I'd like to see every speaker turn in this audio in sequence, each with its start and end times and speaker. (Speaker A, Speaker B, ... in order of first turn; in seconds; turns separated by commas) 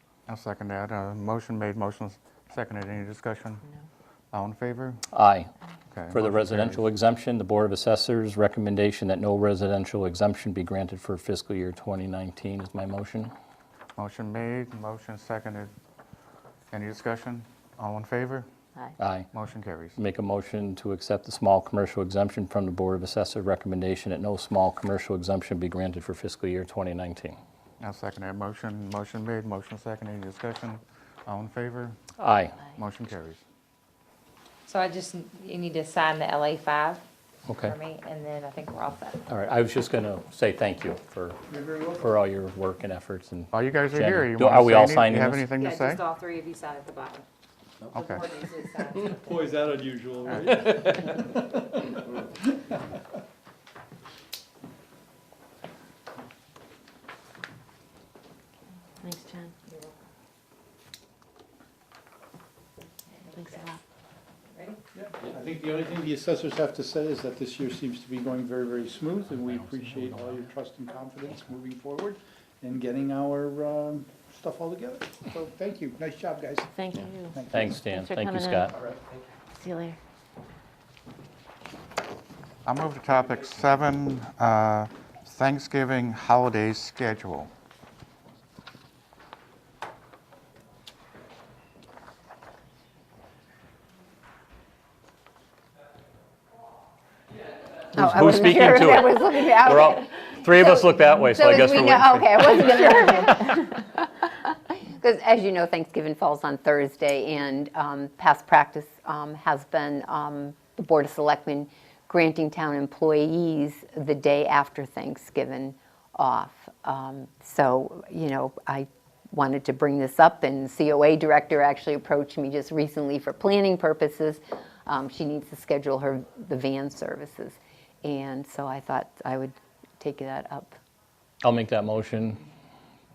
Speaker A: 0.3-3.6, Speaker A: 4.3-5.0, Speaker B: 5.1-5.5, Speaker A: 5.9-6.8, Speaker B: 6.1-13.3, Speaker A: 14.0-15.7, Speaker A: 16.7-18.5, Speaker B: 19.0-19.3, Speaker A: 19.3-20.0, Speaker B: 20.0-27.4, Speaker A: 27.8-32.0, Speaker B: 32.2-32.6, Speaker A: 32.7-33.4, Speaker C: 34.6-37.0, Speaker B: 37.5-37.7, Speaker C: 37.6-39.2, Speaker B: 39.3-41.4, Speaker D: 41.5-42.1, Speaker B: 42.0-45.4, Speaker A: 43.5-46.0, Speaker C: 45.6-47.2, Speaker A: 47.9-48.3, Speaker C: 48.0-49.0, Speaker D: 49.0-52.2, Speaker B: 50.5-51.1, Speaker E: 59.0-59.5, Speaker E: 63.3-63.8, Speaker D: 64.9-76.7, Speaker B: 69.4-70.5, Speaker E: 76.7-78.8, Speaker D: 77.3-77.8, Speaker B: 77.5-78.7, Speaker E: 79.5-80.0, Speaker A: 82.7-87.5, Speaker B: 97.9-103.6, Speaker F: 98.0-130.8, Speaker B: 131.4-132.4